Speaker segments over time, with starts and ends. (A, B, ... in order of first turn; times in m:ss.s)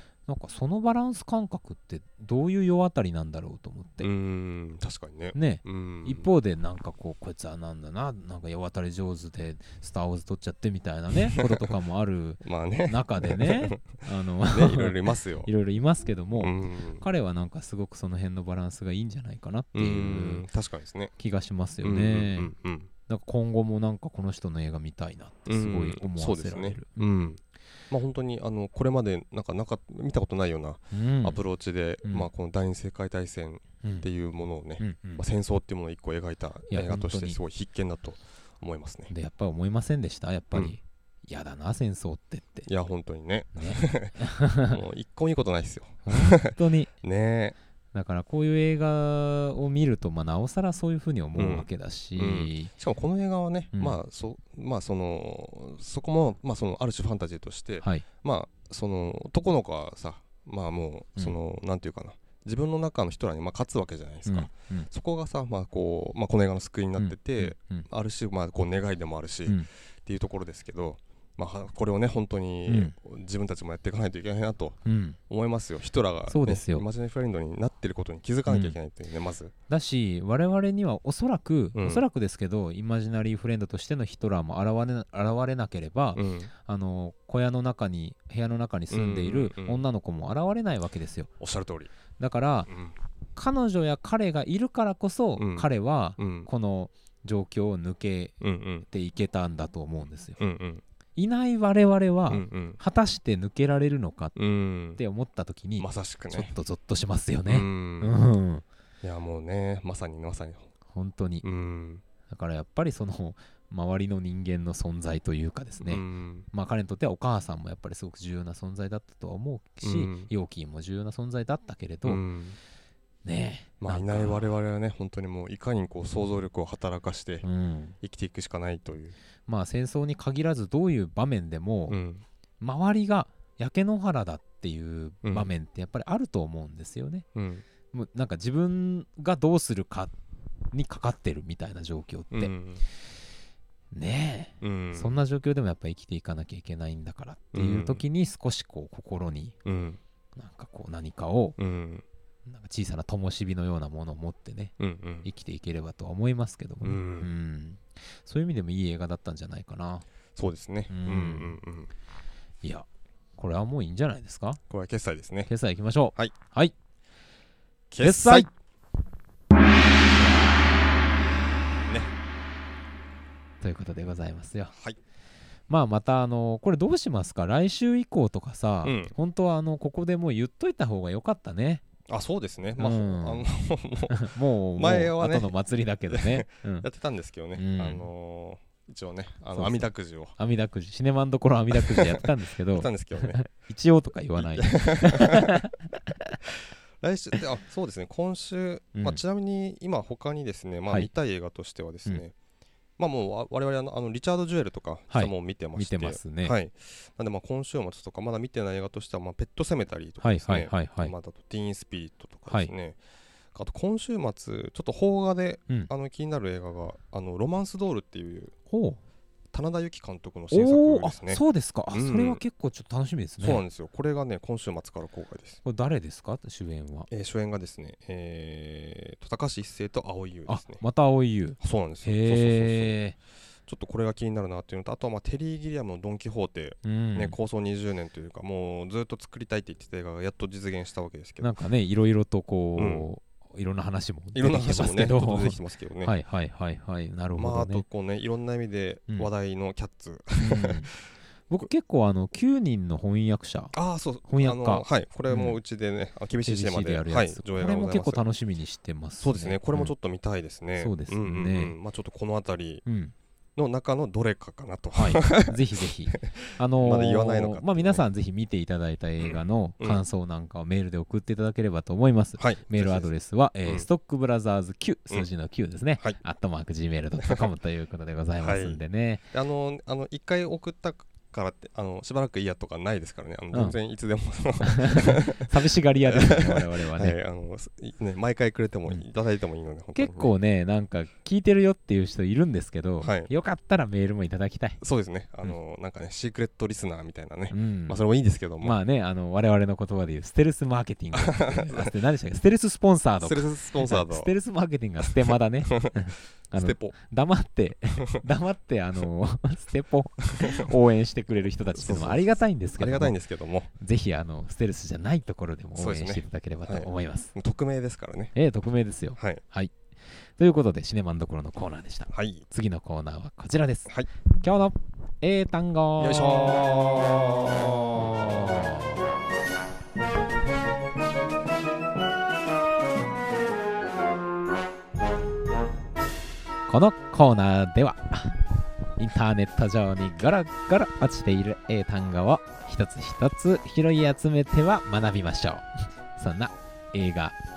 0:00.3-0:04.1 A
0:04.0-0:06.3 B
0:05.3-0:20.4 A
0:11.3-0:11.6 B
0:12.4-0:13.8 B
0:14.5-0:15.5 B
0:16.4-0:17.0 B
0:19.7-0:21.1 B
0:21.2-0:22.5 A
0:21.8-0:22.9 B
0:23.1-0:27.1 A
0:25.5-0:39.1 B
0:30.9-0:31.4 A
0:33.8-0:34.1 A
0:34.8-0:35.2 A
0:36.7-0:37.4 A
0:39.1-0:42.7 A
0:42.6-0:47.5 B
0:43.6-0:44.8 A
0:46.0-0:46.9 A
0:47.9-0:52.7 A
0:51.3-1:19.5 B
0:53.7-0:54.0 A
0:57.8-0:58.0 A
1:04.3-1:04.9 A
1:07.0-1:07.8 A
1:12.7-1:12.9 A
1:14.8-1:15.2 A
1:16.3-1:16.8 A
1:18.5-1:18.8 A
1:19.7-1:31.3 A
1:21.7-1:22.0 B
1:26.2-1:26.5 B
1:28.9-1:29.8 B
1:31.4-1:31.9 B
1:32.2-1:32.7 A
1:32.7-1:32.9 B
1:33.4-1:40.4 A
1:35.4-1:35.7 B
1:36.2-1:36.5 B
1:38.4-1:38.9 B
1:40.4-1:40.8 B
1:41.2-1:44.4 A
1:42.3-1:42.8 B
1:44.4-1:45.0 B
1:45.0-1:48.6 A
1:45.8-1:46.5 B
1:47.5-1:48.1 B
1:49.0-1:50.7 B
1:50.9-1:51.4 A
1:51.4-1:52.0 B
1:52.3-2:02.2 A
1:55.8-1:56.5 B
1:59.8-2:00.3 B
2:02.0-2:02.6 B
2:03.2-2:04.5 A
2:03.8-2:07.4 B
2:07.4-2:08.0 A
2:08.0-2:09.2 B
2:09.5-2:12.0 A
2:11.9-2:12.2 B
2:12.6-2:17.2 A
2:15.2-2:15.5 B
2:17.3-2:17.6 B
2:17.9-2:20.1 A
2:20.7-2:22.5 A
2:22.3-2:22.8 B
2:23.9-2:29.5 A
2:24.6-2:25.2 B
2:27.5-2:28.0 B
2:29.6-2:30.0 B
2:30.4-2:31.6 A
2:31.6-2:32.0 B
2:32.5-2:40.0 A
2:34.8-2:35.2 B
2:36.8-2:37.3 B
2:40.4-2:41.9 B
2:40.9-2:41.6 A
2:43.4-2:44.6 A
2:44.7-2:45.5 B
2:45.5-2:46.7 A
2:47.9-2:48.5 B
2:48.0-2:48.5 A
2:50.2-2:50.8 A
2:51.8-2:52.1 B
2:53.6-2:54.7 A
2:54.7-2:55.0 B
2:55.7-3:01.8 A
2:58.8-2:59.1 B
3:02.1-3:05.5 B
3:02.8-3:03.5 A
3:04.1-3:06.9 A
3:06.1-3:10.3 B
3:07.5-3:08.1 A
3:09.5-3:15.7 A
3:11.7-3:13.4 B
3:14.4-3:15.7 B
3:17.0-3:22.3 B
3:23.0-3:33.0 B
3:25.1-3:26.6 A
3:30.2-3:31.1 A
3:33.5-3:38.5 B
3:38.7-3:39.0 A
3:39.5-3:42.4 B
3:40.5-3:43.6 A
3:43.4-3:45.6 B
3:45.6-3:47.1 A
3:47.1-3:50.8 B
3:50.5-3:53.1 A
3:51.6-3:53.0 B
3:53.7-4:01.5 B
3:56.8-3:57.4 A
4:01.4-4:07.8 A
4:02.8-4:03.1 B
4:04.3-4:06.1 B
4:07.4-4:10.8 B
4:10.4-4:10.9 A
4:11.5-4:13.7 A
4:13.7-4:18.2 B
4:14.3-4:15.6 A
4:16.4-4:19.9 A
4:19.2-4:22.8 B
4:20.8-4:21.7 A
4:22.8-4:23.1 A
4:23.6-4:25.6 B
4:25.0-4:39.2 A
4:26.1-4:28.0 B
4:29.2-4:30.0 B
4:32.4-4:33.1 B
4:38.4-4:38.8 B
4:39.3-4:50.3 B
4:44.6-4:47.2 A
4:49.9-4:54.8 A
4:53.0-4:53.3 B
4:54.8-4:58.8 B
4:57.5-4:58.0 A
4:58.6-5:13.2 A
5:01.1-5:01.9 B
5:03.2-5:04.3 B
5:05.0-5:06.0 B
5:06.5-5:06.9 B
5:10.3-5:10.7 B
5:11.7-5:13.7 B
5:13.8-5:17.3 A
5:15.8-5:18.3 B
5:18.3-5:19.7 A
5:20.4-5:23.9 A
5:22.1-5:22.4 B
5:24.4-5:26.6 A
5:26.0-5:28.7 B
5:27.9-5:29.0 A
5:36.7-5:38.4 A
5:39.0-5:47.4 A